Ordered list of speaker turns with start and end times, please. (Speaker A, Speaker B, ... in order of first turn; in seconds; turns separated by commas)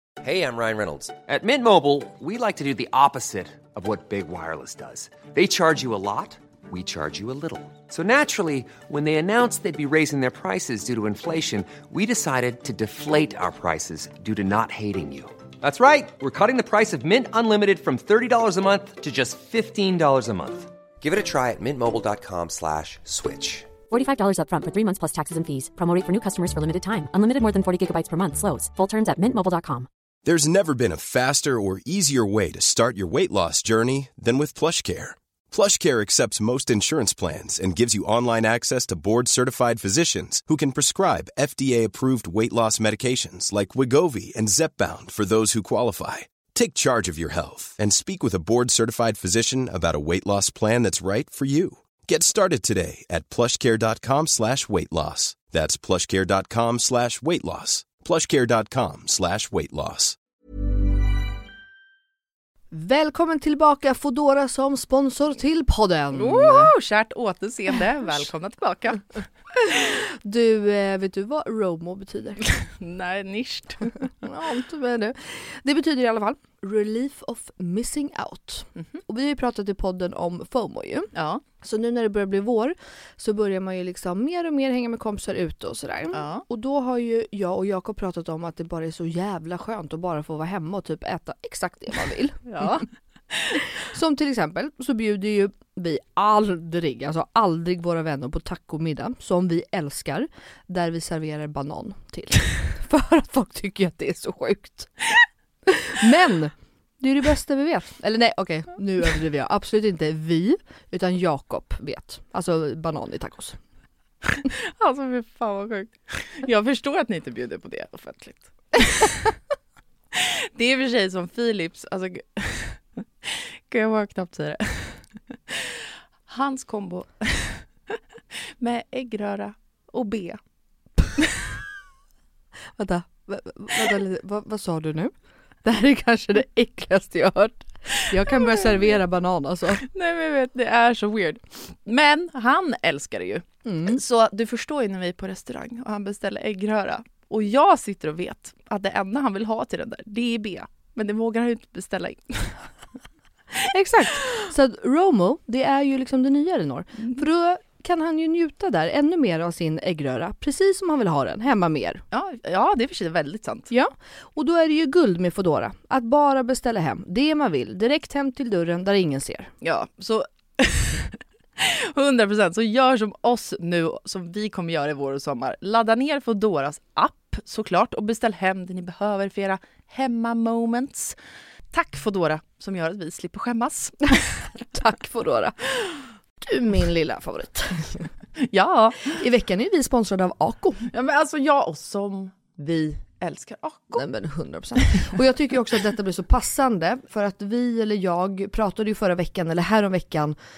Speaker A: 0.2-23.7, Speaker B: 23.9-29.9, Speaker C: 30.2-60.2, Speaker D: 62.7-66.7, Speaker E: 66.1-69.0, Speaker D: 69.6-72.5, Speaker E: 72.4-74.0, Speaker D: 74.2-81.1, Speaker E: 81.2-81.4, Speaker D: 81.6-92.9, Speaker E: 86.1-86.5, Speaker E: 92.5-92.8, Speaker D: 93.5-105.0, Speaker D: 105.7-113.6, Speaker E: 114.3-119.3, Speaker E: 120.1-128.0, Speaker E: 128.6-130.4, Speaker E: 131.2-131.5, Speaker D: 132.8-135.1, Speaker D: 135.6-139.8, Speaker E: 138.1-138.8, Speaker E: 139.8-152.7, Speaker D: 143.7-144.0, Speaker D: 153.6-162.0, Speaker E: 162.1-163.7, Speaker D: 163.7-169.5, Speaker E: 169.6-181.2, Speaker E: 181.7-184.2, Speaker D: 184.6-188.1, Speaker E: 188.4-189.2, Speaker D: 189.1-190.9, Speaker E: 190.9-194.1, Speaker D: 194.0-200.4